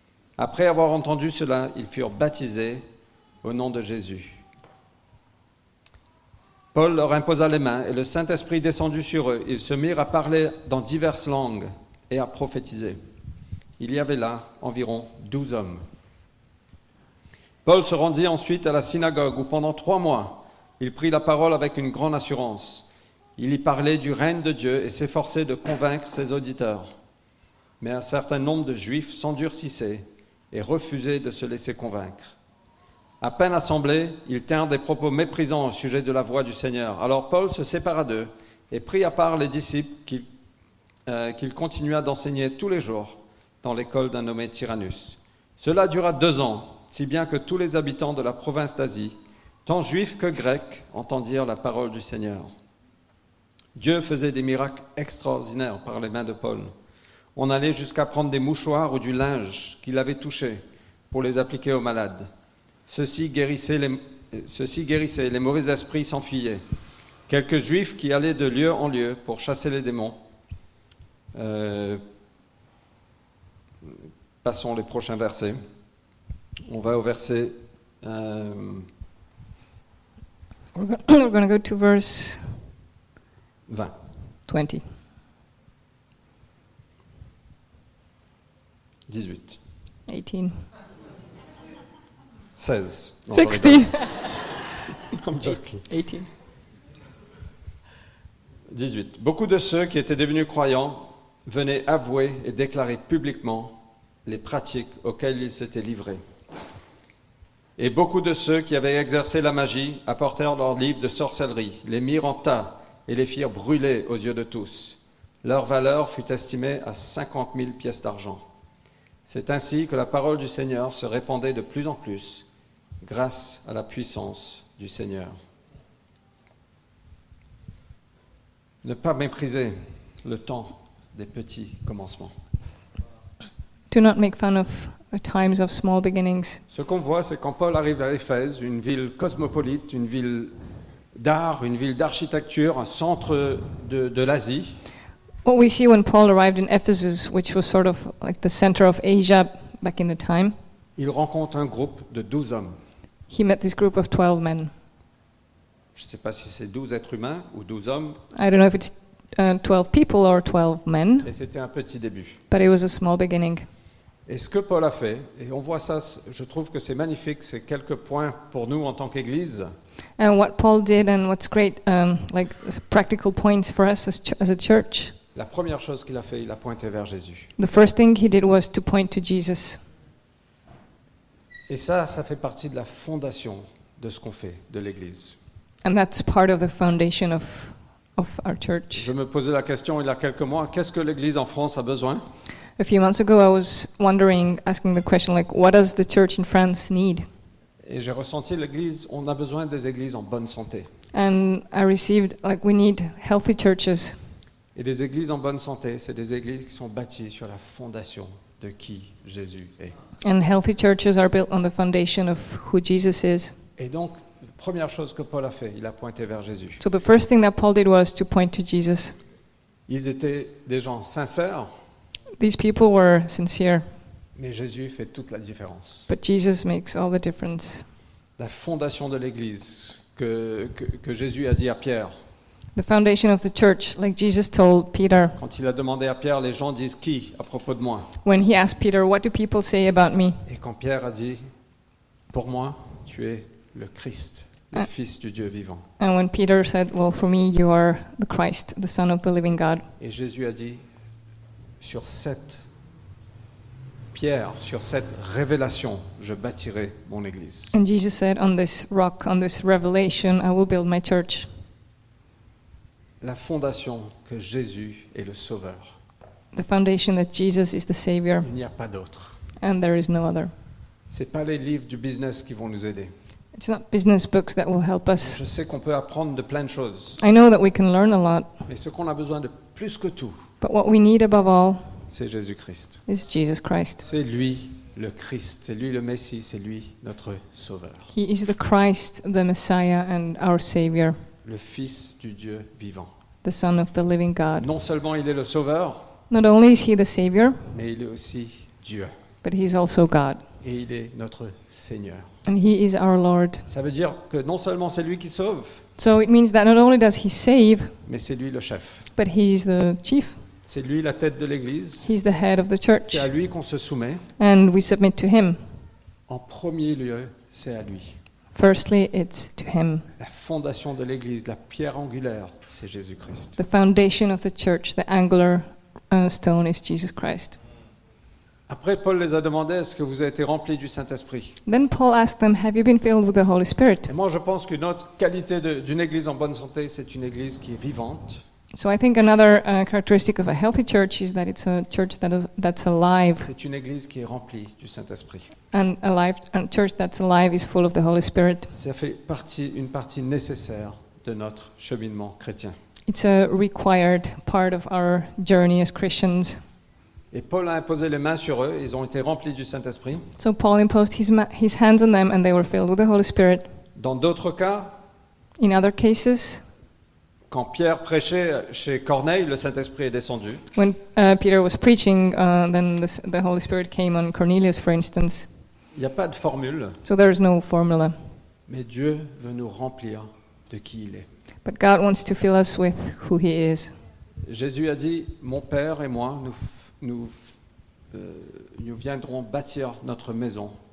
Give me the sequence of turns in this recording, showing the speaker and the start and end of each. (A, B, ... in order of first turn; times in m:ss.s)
0:00.4-0:02.8 A
0:03.4-0:04.4 A
0:06.7-0:13.0 A
0:13.8-0:15.8 A
0:17.6-0:26.9 A
0:27.8-0:32.4 A
0:33.2-0:40.3 A
0:41.1-0:52.5 A
0:53.8-0:56.7 A
0:57.4-1:02.3 A
1:02.9-1:06.6 A
1:07.3-1:10.2 A
1:11.4-1:12.0 A
1:14.4-1:15.6 A
1:16.7-1:18.9 A
1:20.7-1:22.4 B
1:23.7-1:23.9 A
1:24.5-1:24.8 B
1:29.1-1:29.6 A
1:30.1-1:30.6 B
1:32.6-1:34.0 A
1:33.3-1:34.4 B
1:35.0-1:35.9 A
1:35.4-1:36.3 B
1:38.7-1:46.2 A
1:47.8-1:58.4 A
1:59.3-2:02.5 A
2:03.0-2:05.4 A
2:08.8-2:12.3 A
2:13.9-2:16.6 B
2:16.7-2:20.5 A
2:21.2-2:24.8 A
2:25.4-2:30.5 B
2:31.0-2:32.8 A
2:33.3-2:34.7 B
2:36.0-2:38.2 A
2:38.3-2:41.3 B
2:41.2-2:42.4 A
2:42.5-2:43.7 B
2:44.3-2:49.7 A
2:50.2-2:55.2 B
2:55.4-2:57.5 A
2:57.6-2:59.8 B
3:01.7-3:05.4 A
3:05.8-3:09.1 B
3:08.9-3:12.2 A
3:12.8-3:17.3 B
3:17.8-3:20.9 A
3:21.1-3:24.2 B
3:24.8-3:29.9 A
3:30.2-3:33.6 B
3:33.8-3:36.8 A
3:36.8-3:39.2 B
3:39.9-3:41.7 A
3:42.4-3:43.9 B
3:44.4-3:46.1 A
3:46.1-3:47.9 B
3:48.4-3:52.2 A
3:52.8-3:55.4 B
3:55.4-3:58.1 A
3:58.2-4:00.4 B
4:00.5-4:01.4 A
4:02.3-4:05.9 A
4:06.0-4:09.9 B
4:10.0-4:10.8 A
4:11.8-4:12.6 A
4:14.1-4:17.8 A
4:17.7-4:21.5 B
4:23.2-4:26.0 A
4:26.5-4:28.5 B
4:28.4-4:29.4 A
4:29.6-4:30.5 B
4:31.1-4:33.1 A
4:33.6-4:35.4 B
4:35.2-4:37.2 A
4:37.2-4:38.5 B
4:38.7-4:40.4 A
4:40.6-4:41.8 B
4:42.1-4:43.0 A
4:43.1-4:44.0 B
4:44.0-4:48.1 A
4:48.1-4:51.2 B
4:51.4-4:53.1 A
4:53.4-4:54.7 B
4:54.6-4:56.1 A
4:56.3-4:57.6 B
4:57.7-4:59.1 A
4:59.4-5:00.4 B
5:00.6-5:02.3 A
5:02.5-5:03.7 B
5:03.7-5:05.8 A
5:06.0-5:08.0 B
5:08.1-5:09.1 A
5:09.2-5:10.4 B
5:10.6-5:12.1 A
5:12.0-5:13.3 B
5:13.0-5:14.2 A
5:14.4-5:15.6 B
5:16.3-5:18.2 A
5:18.5-5:20.1 B
5:20.2-5:23.6 A
5:23.6-5:27.6 B
5:28.7-5:31.6 A
5:31.7-5:34.1 B
5:34.1-5:38.4 A
5:38.7-5:43.5 B
5:43.4-5:45.5 A
5:45.7-5:48.7 B
5:48.7-5:52.8 A
5:53.1-5:56.6 B
5:57.3-6:00.3 A
6:00.4-6:03.7 B
6:04.0-6:04.9 A
6:05.6-6:06.6 B
6:07.5-6:10.6 A
6:10.8-6:15.5 B
6:16.0-6:17.0 A
6:17.0-6:18.2 B
6:18.7-6:21.3 A
6:21.6-6:23.9 B
6:24.5-6:27.6 A
6:28.1-6:30.8 A